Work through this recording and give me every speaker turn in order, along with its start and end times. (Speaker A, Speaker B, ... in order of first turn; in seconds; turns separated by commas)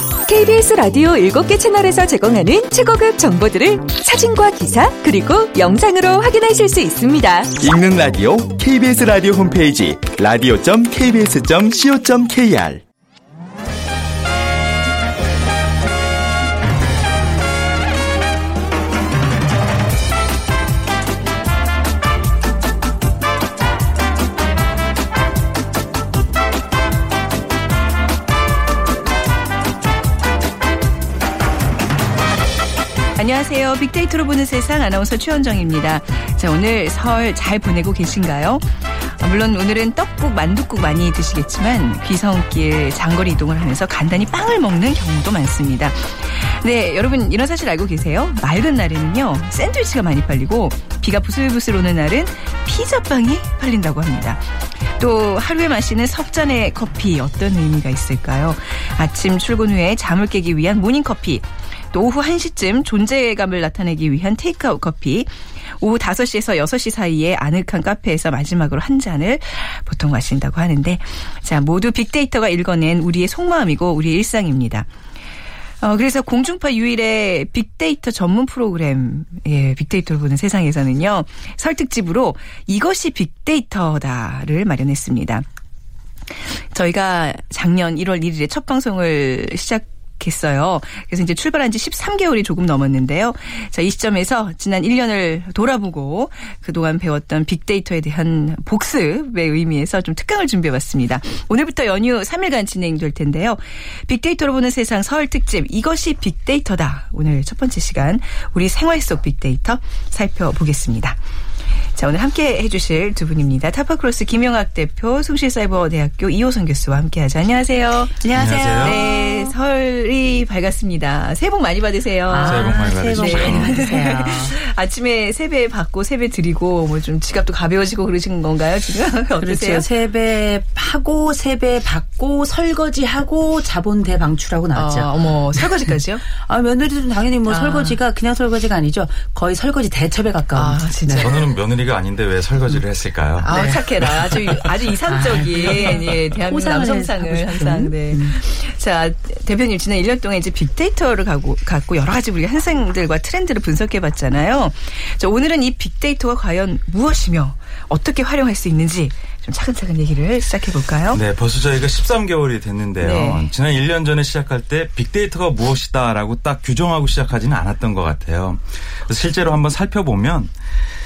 Speaker A: 0.3-7.6, Speaker B: 7.6-12.8, Speaker C: 33.2-74.9, Speaker C: 75.8-85.5, Speaker C: 86.7-111.2, Speaker C: 111.9-129.9, Speaker D: 118.2-119.5, Speaker E: 118.3-119.0, Speaker D: 122.3-124.6, Speaker E: 122.4-123.8, Speaker D: 129.4-141.3, Speaker C: 134.7-136.2, Speaker C: 137.5-138.0, Speaker C: 140.6-141.6, Speaker E: 141.2-144.6, Speaker D: 143.4-144.4, Speaker C: 143.4-161.2, Speaker D: 145.1-148.4, Speaker E: 161.1-170.5, Speaker C: 163.0-163.5